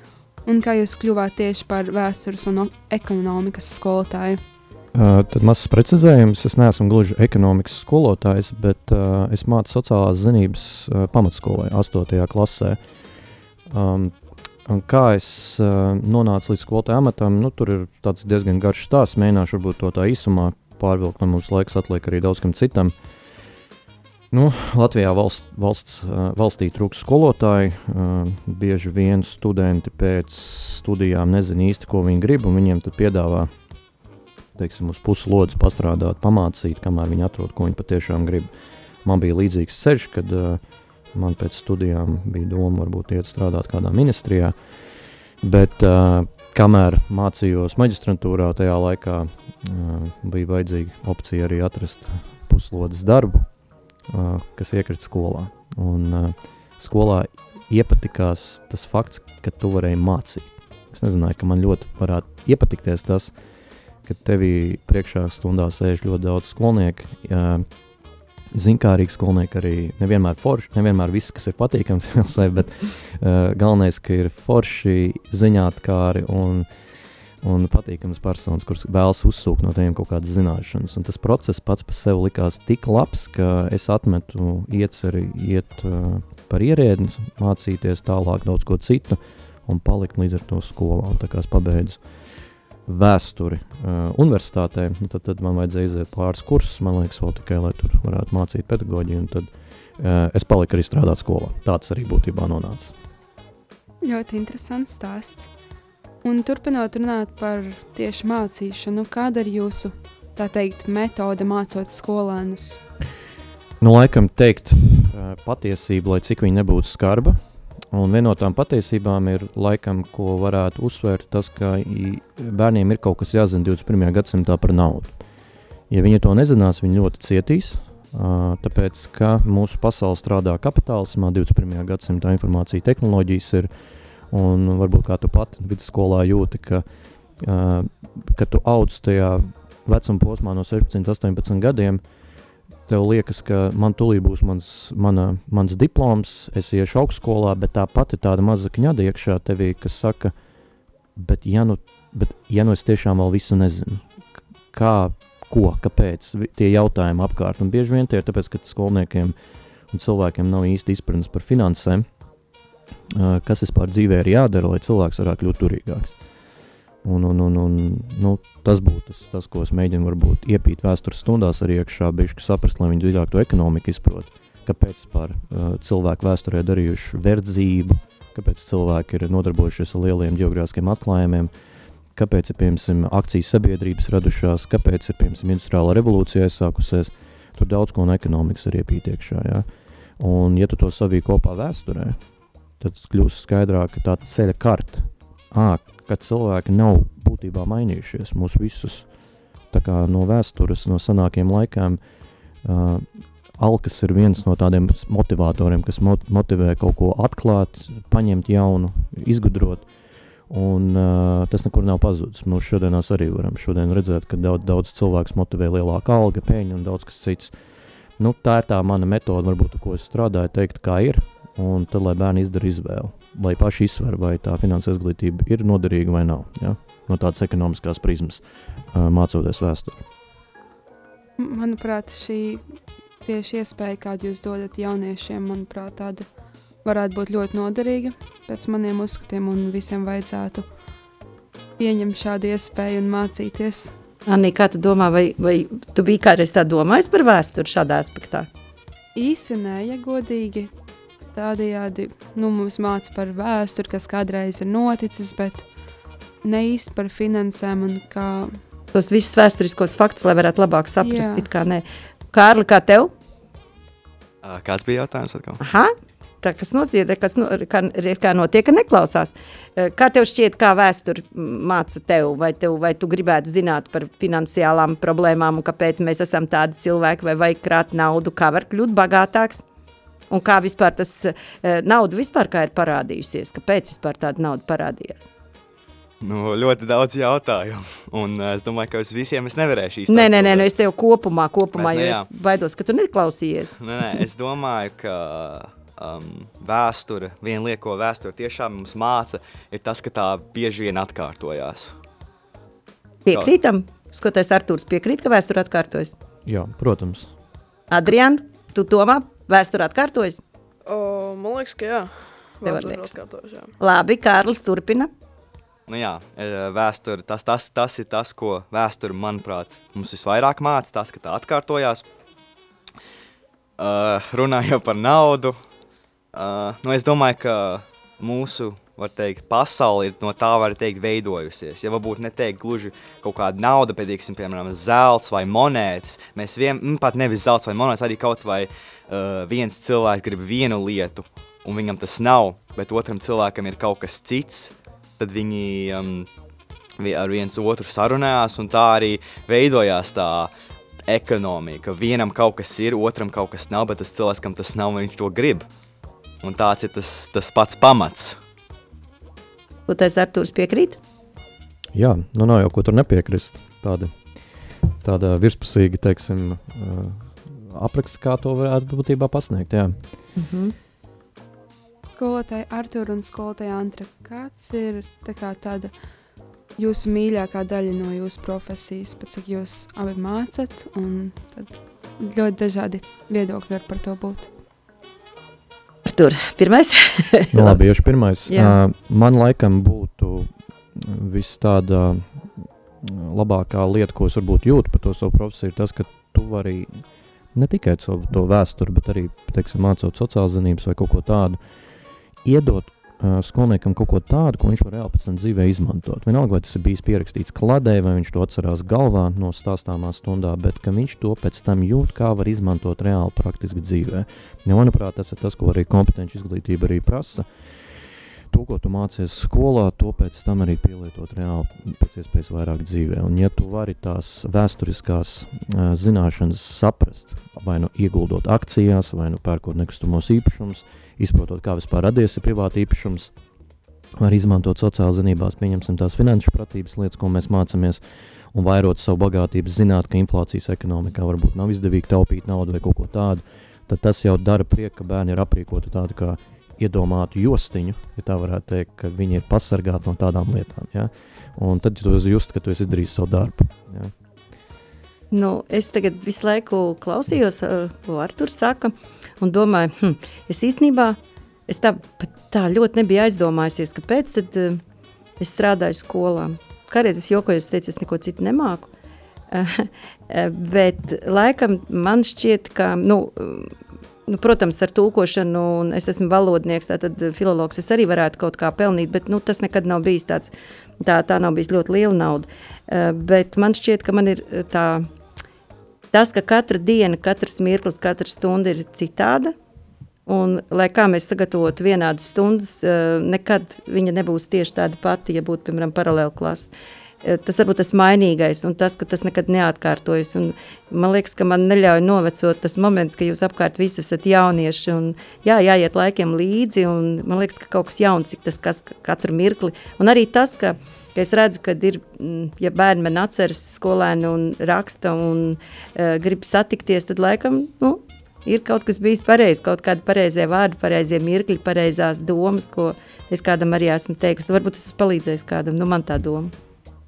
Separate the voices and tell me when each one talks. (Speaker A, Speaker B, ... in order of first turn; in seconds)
Speaker A: 0.4-4.4, 104.0-105.5, 106.2-112.8, 231.4-232.6, 233.2-236.2, 236.8-240.7, 241.8-243.9, 249.1-250.7, 251.3-255.7, 256.4-258.6, 261.0-261.5, 372.1-375.9, 376.8-384.5
Speaker B: 4.9-12.8, 13.7-14.1, 14.7-22.9, 24.3-33.5, 34.5-38.5, 39.0-40.6, 41.1-44.5, 45.4-53.5, 54.1-63.3, 64.0-67.7, 68.5-76.7, 77.4-92.0, 92.8-102.9, 113.8-117.4, 117.9-125.2, 125.9-133.7, 134.3-136.8, 137.4-142.0, 142.9-150.3, 151.2-154.1, 154.7-159.3, 159.9-162.1, 163.1-166.2, 167.0-181.5, 182.1-189.7, 190.2-192.2, 192.8-199.1, 199.7-202.0, 202.6-209.9, 210.5-217.5, 218.2-230.0, 306.4-307.3, 361.9-364.1, 365.0-369.9, 387.5-392.5, 393.0-397.0, 397.5-401.6, 402.4-417.4, 418.5-433.3, 434.2-438.0, 438.5-454.1
Speaker C: 244.2-248.5, 258.9-263.1, 265.6-279.6, 280.3-285.3, 290.1-293.7, 303.2-306.1, 307.9-310.4, 312.6-313.1, 313.8-315.1, 359.9-361.0, 370.4-370.7, 386.1-387.8, 388.5-388.8, 455.3-461.2, 461.7-464.8, 465.4-468.9, 469.5-473.7, 474.3-485.1, 486.1-489.5, 490.3-496.7, 497.2-526.5
Speaker D: 264.4-265.6, 286.2-290.7, 291.8-292.2, 293.8-301.9, 315.9-322.0, 323.8-325.6, 326.3-346.3, 347.0-350.5, 351.1-355.7, 356.4-358.4
Speaker E: 310.9-313.7